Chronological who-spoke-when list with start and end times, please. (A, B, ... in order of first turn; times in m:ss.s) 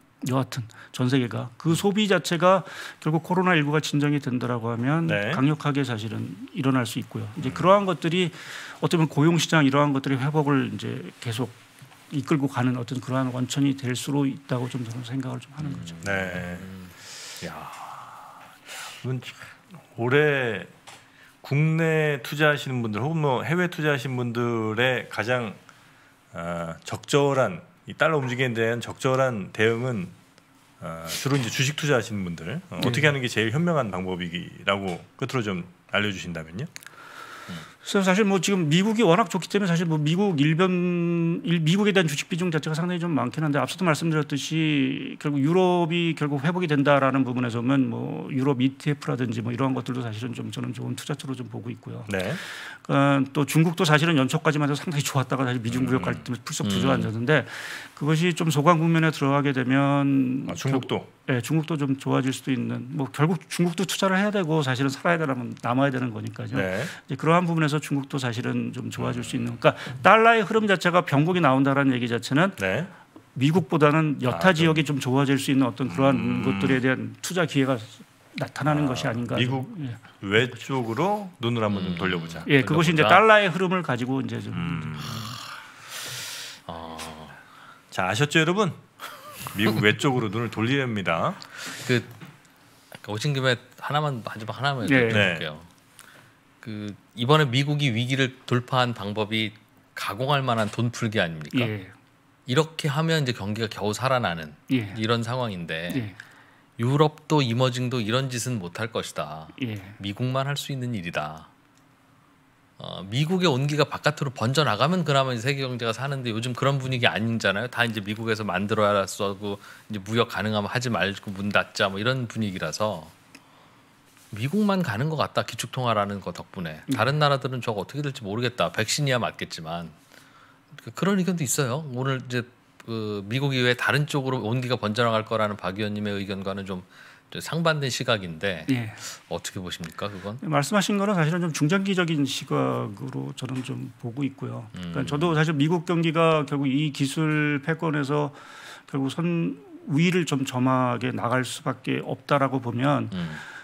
0:00.2-0:11.6 A
0:05.0-0:05.4 B
0:07.4-0:07.7 B
0:12.1-0:16.0 A
0:15.6-0:17.9 C
0:16.0-0:16.7 B
0:18.9-0:20.7 B
0:21.4-0:25.6 B
0:26.3-0:30.1 B
0:30.8-0:36.7 B
0:32.8-0:33.1 A
0:37.8-1:12.6 A
0:52.1-0:52.4 B
0:55.7-0:56.2 B
0:56.6-0:57.1 C
1:00.5-1:01.1 B
1:06.5-1:06.9 B
1:09.0-1:09.4 B
1:12.6-1:12.9 B
1:13.3-1:20.0 A
1:14.3-1:14.8 B
1:15.8-1:16.8 B
1:18.7-1:19.7 B
1:20.2-1:22.5 B
1:21.7-1:23.2 C
1:22.4-1:25.3 A
1:24.5-1:25.4 B
1:25.0-1:25.4 C
1:26.6-1:27.4 C
1:27.9-1:28.8 B
1:29.4-1:31.4 B
1:31.8-1:32.1 C
1:32.9-1:35.6 C
1:34.8-1:35.3 A
1:35.1-1:35.5 B
1:36.6-1:41.7 C
1:41.5-1:41.9 A
1:42.5-1:46.0 C
1:44.7-1:45.0 A
1:45.9-1:46.1 A
1:46.8-1:51.5 C
1:49.6-1:49.9 A
1:52.8-2:03.1 C
2:04.3-2:10.0 C
2:10.7-2:20.4 C
2:18.7-2:19.0 A
2:20.4-2:33.2 A
2:24.7-2:25.4 C
2:33.1-2:33.4 C